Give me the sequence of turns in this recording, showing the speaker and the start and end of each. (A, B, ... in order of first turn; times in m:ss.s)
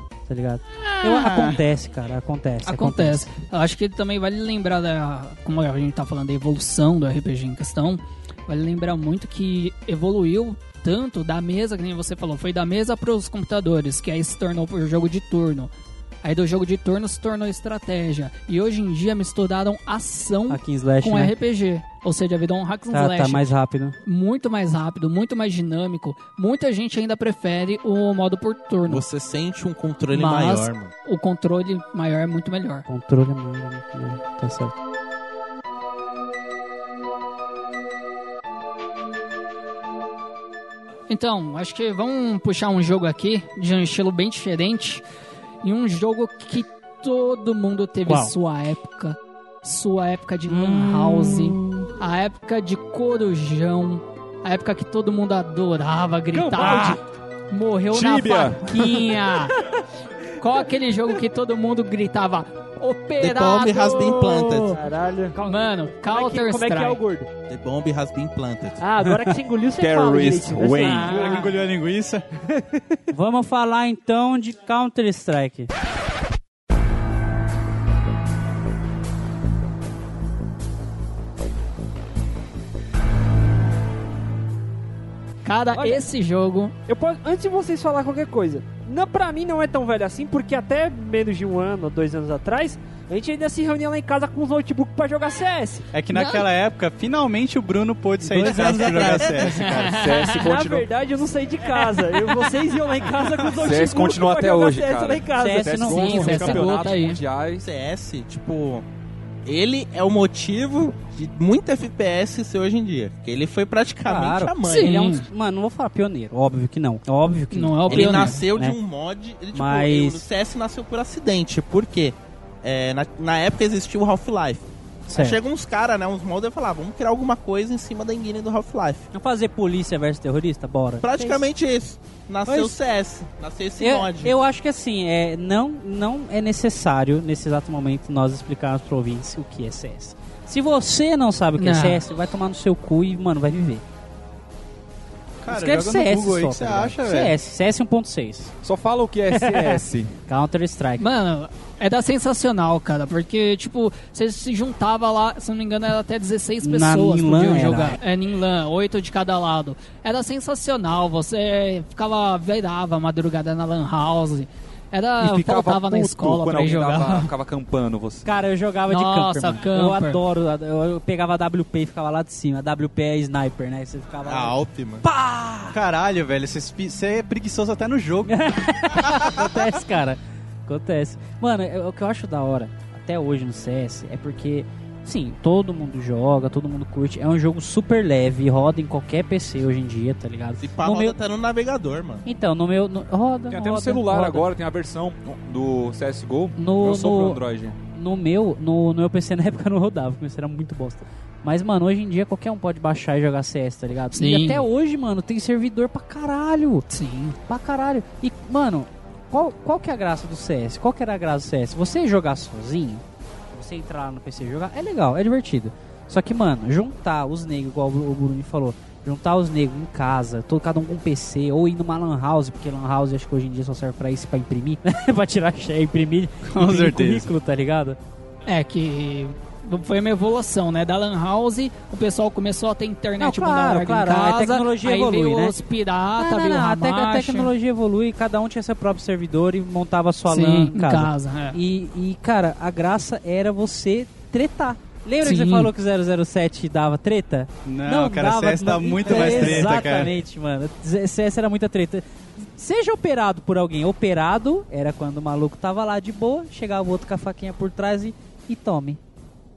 0:00.3-0:03.3 A
0:00.9-0:01.6 B
0:02.6-0:15.7 B
0:16.2-0:23.5 B
0:20.5-0:21.3 A
0:22.9-0:24.0 A
0:24.1-0:29.0 B
0:28.9-0:30.9 C
0:30.1-0:32.8 B
0:32.9-0:34.8 A
0:41.1-0:45.0 B
0:45.6-0:59.6 B
0:48.1-0:48.3 A
0:50.5-0:51.8 A
0:56.3-0:57.0 D
0:56.6-0:57.0 E
0:57.9-0:59.0 E
1:00.4-1:04.8 B
1:03.2-1:04.8 C
1:04.7-1:07.3 D
1:05.4-1:07.0 B
1:07.5-1:08.8 C
1:08.8-1:11.5 D
1:09.8-1:11.2 E
1:10.8-1:11.5 B
1:11.1-1:12.2 F
1:12.5-1:13.0 D
1:13.1-1:15.7 A
1:25.4-1:26.7 B
1:25.7-1:26.0 D
1:26.9-1:35.9 D
1:35.9-1:40.0 F
1:36.1-1:36.5 B
1:38.2-1:39.4 A
1:38.4-1:39.3 D
1:39.4-1:40.3 B
1:39.9-1:40.9 E
1:40.2-1:46.2 D
1:43.6-1:47.6 E
1:45.4-1:46.8 A
1:45.9-1:47.2 B
1:47.6-1:48.8 C
1:49.5-1:55.2 C
1:54.1-1:58.8 A
1:54.6-1:55.3 B
1:57.5-1:58.4 B
1:57.9-2:09.1 C
1:59.5-2:00.2 A
2:05.1-2:05.4 A
2:09.1-2:11.1 A
2:11.0-2:14.3 C
2:12.5-2:12.8 A
2:13.8-2:23.8 A
2:21.6-2:22.0 B
2:25.4-2:27.3 F
2:25.5-2:28.5 A
2:28.6-2:30.1 E
2:29.3-2:31.1 A
2:31.0-2:47.3 B
2:36.6-2:38.0 A
2:45.2-2:48.3 E
2:48.2-2:55.8 A
2:48.9-2:50.2 B
2:54.2-2:55.0 C
2:55.7-2:58.4 F
2:58.3-3:11.2 A
3:10.6-3:12.2 C
3:12.2-3:14.5 A
3:13.5-3:17.8 E
3:16.6-3:17.4 A
3:17.9-3:26.8 A
3:24.1-3:24.6 B
3:26.9-3:27.4 B
3:27.5-3:48.0 A
3:46.4-3:47.3 F
3:48.5-3:57.5 B
3:53.2-3:55.6 A
3:56.2-4:19.0 A
4:00.3-4:01.6 B
4:05.2-4:05.7 B
4:07.7-4:10.1 F
4:09.1-4:09.6 B